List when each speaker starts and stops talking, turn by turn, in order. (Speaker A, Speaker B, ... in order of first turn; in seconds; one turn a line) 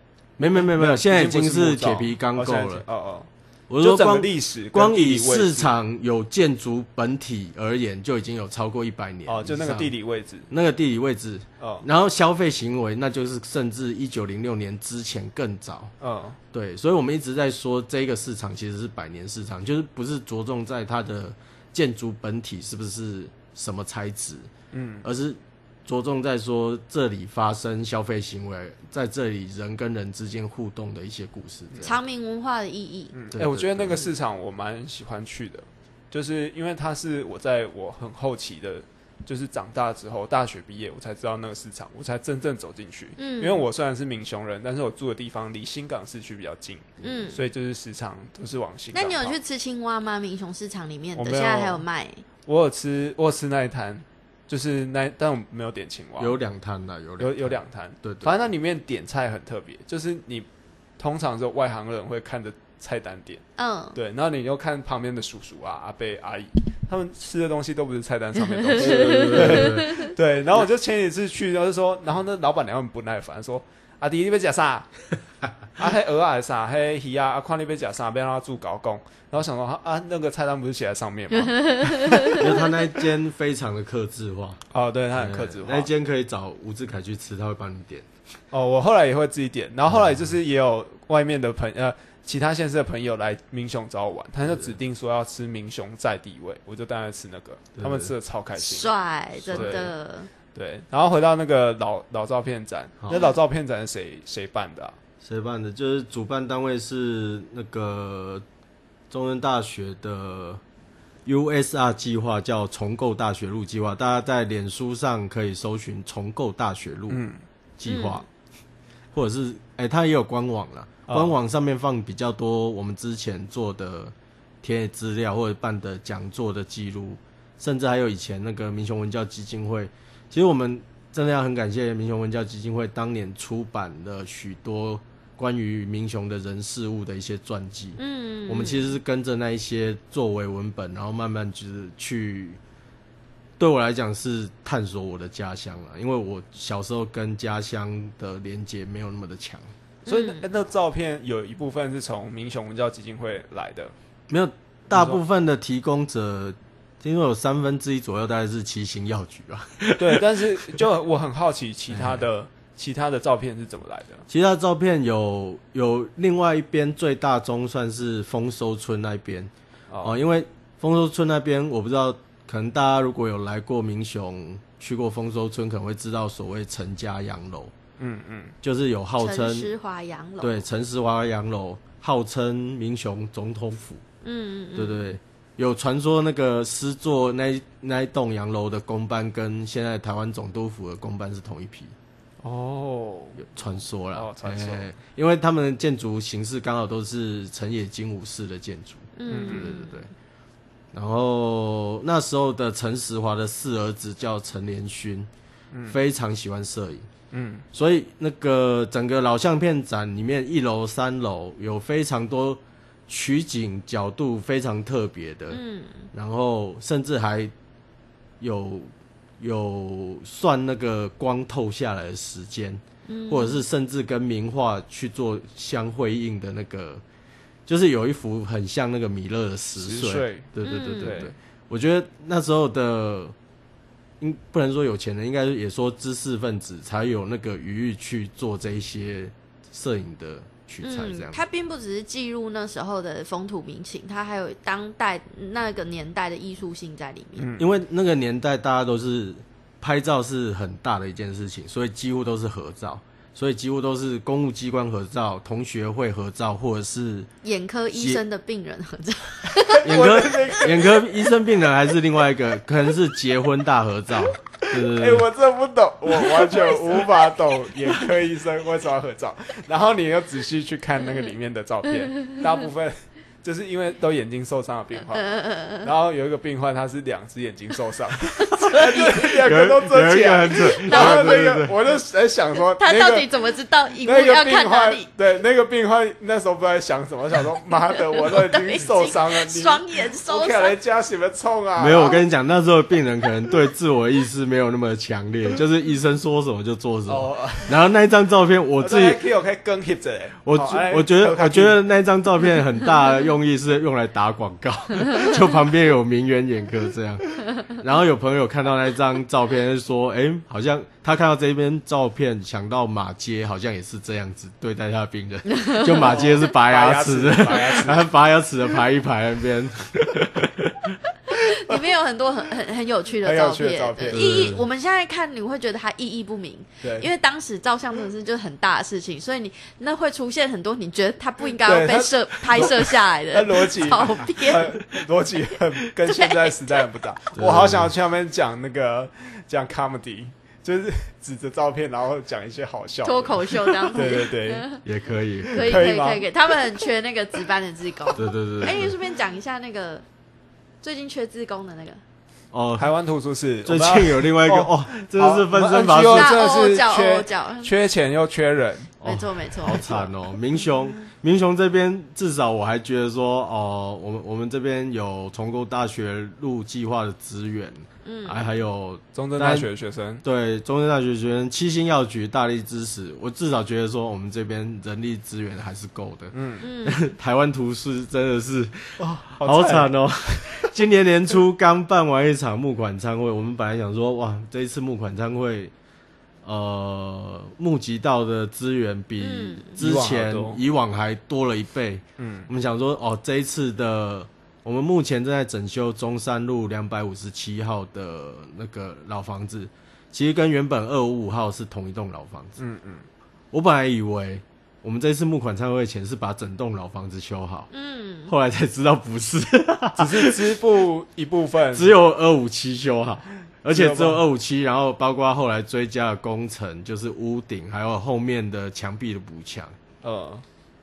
Speaker A: 0.4-2.8
Speaker B: 0.5-5.7
Speaker A: 3.7-9.9
Speaker B: 9.2-10.5
Speaker A: 10.5-15.9
Speaker B: 11.6-11.8
Speaker B: 16.0-16.4
Speaker A: 16.5-24.5
Speaker B: 24.7-25.1
Speaker A: 25.0-31.9
Speaker C: 31.8-33.1
Speaker B: 33.1-49.4
Speaker A: 33.3-34.1
Speaker C: 43.2-43.6
Speaker C: 47.0-47.4
Speaker C: 48.9-52.2
Speaker B: 51.1-51.8
Speaker B: 52.5-56.4
Speaker A: 56.2-58.3
Speaker B: 57.2-60.5
Speaker B: 61.0-63.4
Speaker C: 63.6-64.0
Speaker B: 63.9-74.9
Speaker C: 68.5-70.1
Speaker A: 68.8-70.0
Speaker B: 75.8-82.5
Speaker C: 81.5-82.6
Speaker A: 82.3-84.6
Speaker B: 84.7-85.9
Speaker A: 85.1-88.1
Speaker B: 88.5-98.9
Speaker A: 89.9-90.2
Speaker A: 94.5-94.7
Speaker A: 97.8-98.1
Speaker C: 98.6-100.3
Speaker A: 99.5-99.8
Speaker B: 99.5-99.9
Speaker B: 100.5-105.0
Speaker A: 105.2-108.4
Speaker A: 109.1-110.6
Speaker A: 111.2-117.2
Speaker B: 117.1-117.4
Speaker A: 117.8-118.2
Speaker C: 117.8-118.2
Speaker A: 119.1-142.6
Speaker B: 121.1-121.3
Speaker C: 138.0-138.9
Speaker A: 143.6-149.7
Speaker B: 150.1-153.9
Speaker C: 150.1-150.4
Speaker A: 154.3-160.8
Speaker B: 154.9-155.2
Speaker B: 160.0-164.2
Speaker A: 161.9-162.2
Speaker A: 164.3-169.5
Speaker B: 169.9-170.2
Speaker A: 170.0-177.7
Speaker B: 178.0-178.5
Speaker A: 178.6-179.7
Speaker C: 179.2-180.6
Speaker A: 180.4-184.0
Speaker C: 184.2-185.0
Speaker A: 184.7-191.9
Speaker B: 192.4-193.4
Speaker A: 193.4-200.1
Speaker B: 194.1-194.9
Speaker C: 199.2-200.0
Speaker B: 199.3-199.7
Speaker A: 200.9-205.3
Speaker B: 205.7-206.0
Speaker A: 205.9-207.1
Speaker B: 207.3-207.6
Speaker A: 207.7-215.6
Speaker C: 215.5-216.1
Speaker A: 216.1-217.5
Speaker A: 218.4-227.0
Speaker C: 223.1-223.6
Speaker A: 227.7-233.3
Speaker B: 229.8-231.3
Speaker C: 230.6-231.3
Speaker A: 234.2-241.4
Speaker C: 240.8-247.5
Speaker B: 247.4-247.7
Speaker A: 247.6-257.3
Speaker C: 257.4-259.9
Speaker A: 257.9-258.2
Speaker B: 259.7-261.1
Speaker A: 259.8-265.3
Speaker B: 264.6-283.3
Speaker C: 275.2-275.9
Speaker C: 278.4-279.3
Speaker A: 279.4-281.7
Speaker C: 280.8-281.4
Speaker C: 282.8-285.1
Speaker B: 284.0-292.2
Speaker C: 288.1-290.7
Speaker A: 291.8-299.2
Speaker B: 297.1-297.8
Speaker B: 298.8-301.8
Speaker A: 300.4-321.0
Speaker C: 315.5-315.9
Speaker B: 315.9-318.0
Speaker C: 321.3-334.8
Speaker B: 323.2-324.4
Speaker A: 324.1-324.7
Speaker B: 326.8-327.1
Speaker B: 331.6-344.7
Speaker C: 336.1-336.8
Speaker A: 337.3-337.9
Speaker C: 343.0-344.8
Speaker A: 344.8-345.8
Speaker C: 345.5-350.0
Speaker B: 345.5-346.3
Speaker A: 348.1-348.9
Speaker C: 350.8-352.0
Speaker A: 352.5-352.9
Speaker B: 352.8-358.9
Speaker A: 353.6-356.4
Speaker C: 356.1-357.7
Speaker A: 359.0-369.7
Speaker C: 359.0-360.1
Speaker C: 368.0-368.5
Speaker B: 369.1-370.2
Speaker A: 370.2-385.7
Speaker B: 376.3-376.6
Speaker C: 376.6-377.0
Speaker B: 379.0-380.7
Speaker A: 386.4-402.6
Speaker C: 389.2-389.7
Speaker B: 389.8-390.6
Speaker B: 392.2-392.5
Speaker B: 402.6-403.1
Speaker A: 403.5-407.7
Speaker C: 407.7-408.3
Speaker A: 408.3-410.5
Speaker B: 410.0-411.9
Speaker A: 411.7-419.7
Speaker B: 413.7-414.2
Speaker B: 420.0-420.4